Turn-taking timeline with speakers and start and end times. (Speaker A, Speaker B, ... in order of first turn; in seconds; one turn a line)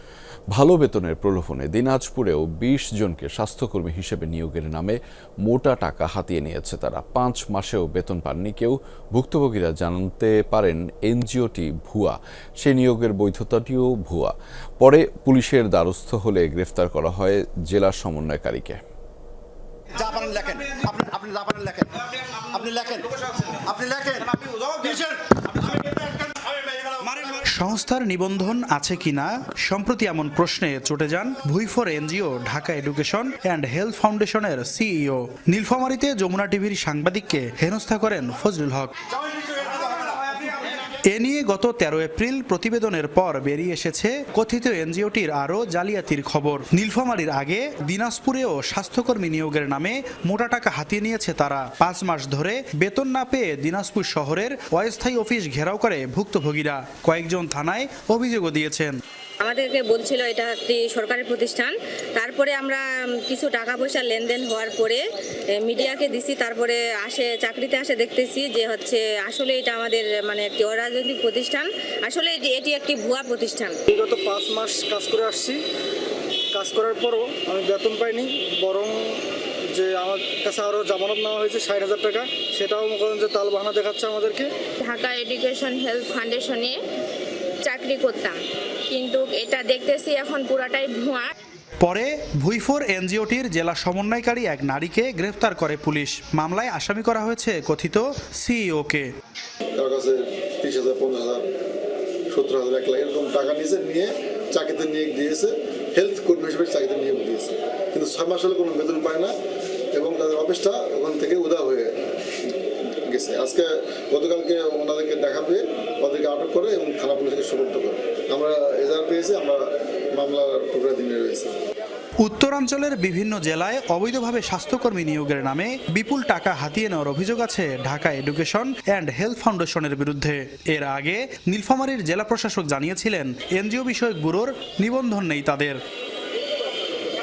Speaker A: 0.5-18.8
Speaker B: 19.9-27.2
Speaker C: 27.0-38.9
Speaker B: 39.7-40.1
Speaker C: 41.1-59.0
Speaker D: 59.4-65.0
Speaker D: 65.6-73.8
Speaker E: 73.9-75.6
Speaker E: 76.5-84.5
Speaker F: 84.9-85.7
Speaker F: 89.5-91.3
Speaker C: 91.8-99.1
Speaker G: 99.7-101.5
Speaker G: 102.3-109.3
Speaker G: 109.9-111.9
Speaker G: 113.0-119.6
Speaker G: 120.2-121.5
Speaker C: 122.2-135.8